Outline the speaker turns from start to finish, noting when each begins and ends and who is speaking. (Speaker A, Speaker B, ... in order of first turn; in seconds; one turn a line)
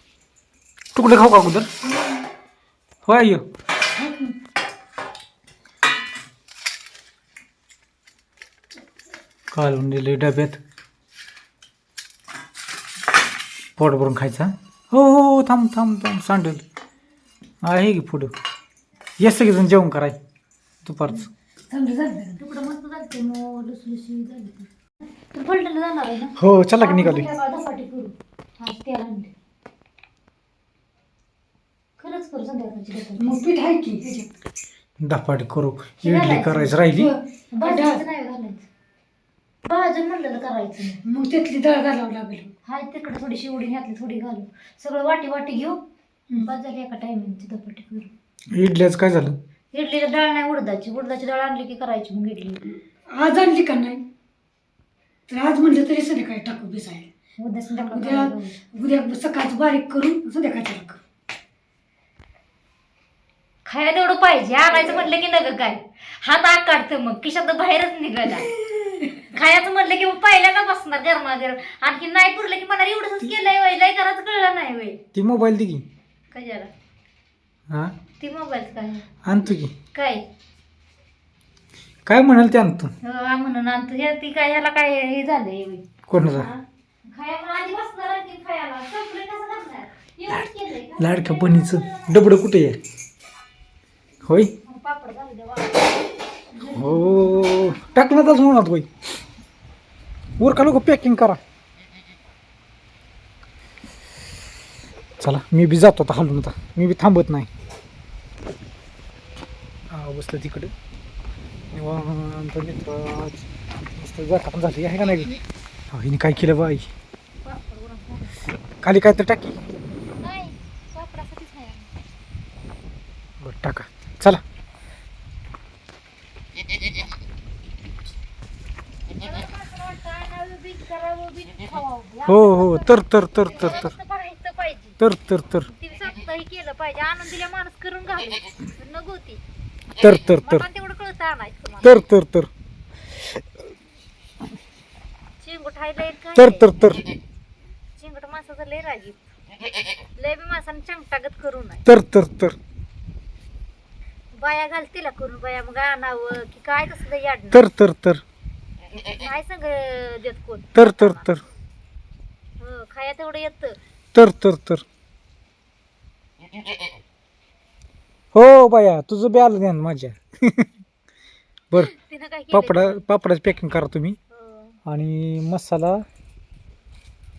Speaker A: 0.9-1.7
Speaker B: 1.9-2.2
Speaker A: 3.1-3.5
Speaker B: 3.9-4.3
Speaker A: 9.5-10.6
Speaker A: 13.8-16.6
Speaker A: 17.6-18.3
Speaker A: 19.2-20.2
Speaker A: 20.8-21.3
Speaker B: 21.7-22.4
Speaker C: 22.4-24.7
Speaker C: 25.3-29.3
Speaker A: 26.4-27.3
Speaker C: 32.0-33.4
Speaker B: 33.2-34.4
Speaker A: 35.0-37.1
Speaker C: 36.0-36.8
Speaker B: 36.9-38.0
Speaker C: 37.5-38.7
Speaker C: 39.6-41.0
Speaker B: 41.0-42.5
Speaker C: 42.7-45.8
Speaker C: 46.3-48.1
Speaker A: 48.5-49.4
Speaker C: 49.7-52.8
Speaker B: 53.1-54.0
Speaker B: 55.3-57.1
Speaker C: 57.4-58.6
Speaker B: 57.8-61.0
Speaker C: 63.7-68.5
Speaker B: 68.6-69.1
Speaker C: 69.2-75.0
Speaker A: 75.1-75.8
Speaker C: 76.3-76.7
Speaker A: 77.7-78.0
Speaker C: 78.2-79.1
Speaker A: 79.2-79.7
Speaker C: 79.9-80.3
Speaker A: 82.1-82.9
Speaker C: 83.0-92.3
Speaker A: 86.1-86.5
Speaker A: 90.3-92.8
Speaker A: 94.2-94.5
Speaker C: 94.6-96.1
Speaker B: 96.6-97.5
Speaker C: 96.6-98.5
Speaker A: 96.7-98.9
Speaker A: 100.4-101.4
Speaker A: 105.2-107.5
Speaker A: 109.9-110.7
Speaker A: 111.7-115.4
Speaker A: 115.9-116.9
Speaker C: 117.4-118.5
Speaker A: 118.8-119.6
Speaker C: 120.2-121.9
Speaker A: 123.4-124.4
Speaker C: 129.1-135.0
Speaker A: 132.3-133.9
Speaker A: 135.0-135.7
Speaker C: 135.7-139.4
Speaker A: 140.0-140.7
Speaker C: 140.4-142.1
Speaker A: 141.8-142.5
Speaker C: 145.4-146.8
Speaker A: 146.3-147.1
Speaker C: 148.0-149.2
Speaker C: 150.2-151.9
Speaker A: 151.9-152.6
Speaker C: 154.3-157.7
Speaker A: 157.5-158.2
Speaker C: 159.0-161.3
Speaker A: 160.8-161.4
Speaker C: 162.6-163.8
Speaker A: 164.1-164.8
Speaker A: 168.3-170.7
Speaker C: 171.8-173.1
Speaker A: 172.5-174.2
Speaker C: 174.3-174.8
Speaker A: 174.9-176.0